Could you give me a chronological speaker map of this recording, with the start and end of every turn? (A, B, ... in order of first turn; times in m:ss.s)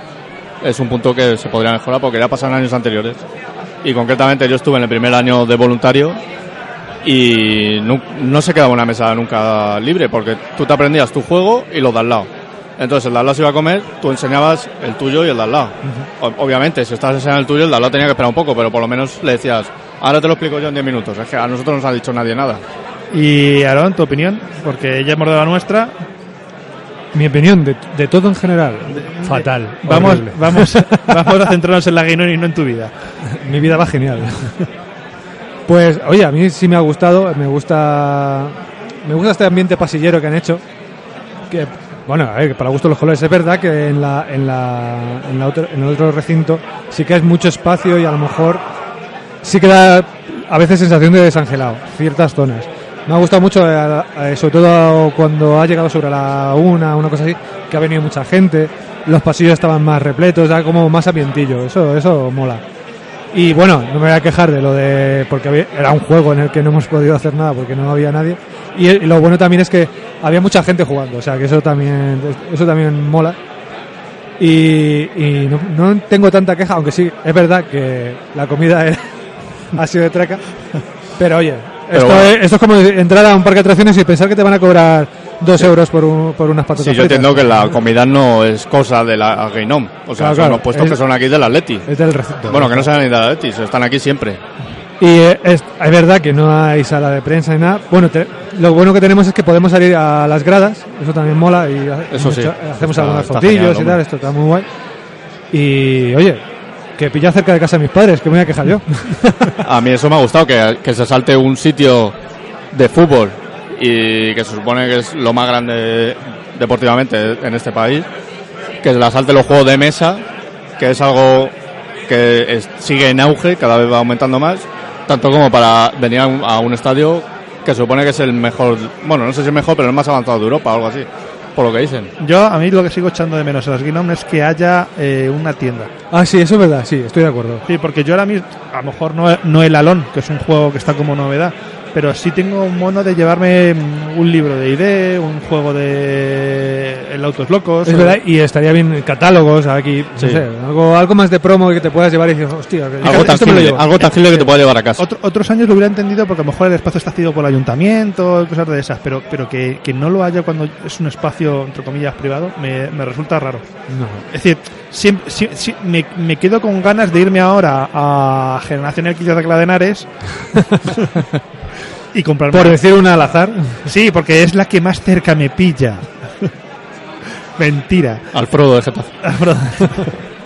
0:00.6-0:03.2 A
0:03.8-0:06.2 A
0:07.0-0:22.6 A
0:23.1-0:25.9 B
0:27.1-0:31.4 C
0:28.9-0:32.9 B
0:33.3-0:34.6 C
0:35.7-0:40.6 C
0:41.5-0:48.6 C
0:49.4-1:02.6 C
1:03.3-1:13.4 C
1:14.4-1:19.1 C
1:19.7-1:20.4 C
1:21.2-1:27.6 C
1:21.9-1:22.3 A
1:26.8-1:31.9 A
1:30.2-1:31.0 C
1:31.9-1:32.9 C
1:32.5-1:34.4 A
1:35.0-1:44.6 C
1:42.1-1:44.0 A
1:45.5-1:46.4 C
1:47.0-1:49.5 C
1:49.6-1:52.1 A
1:52.7-1:58.1 A
1:58.8-2:00.2 A
2:00.8-2:01.5 A
2:02.1-2:12.1 A
2:12.2-2:15.9 B
2:16.1-2:17.6 C
2:17.7-2:28.2 B
2:27.8-2:34.1 C
2:30.2-2:30.4 A
2:33.0-2:35.0 A
2:33.0-2:43.7 B
2:43.9-2:44.2 C
2:44.3-2:50.3 B
2:52.1-2:52.8 B
2:52.5-2:53.9 C
2:53.8-2:56.5 B
2:57.6-2:58.2 B
2:58.3-2:59.1 A
2:59.2-3:00.1 B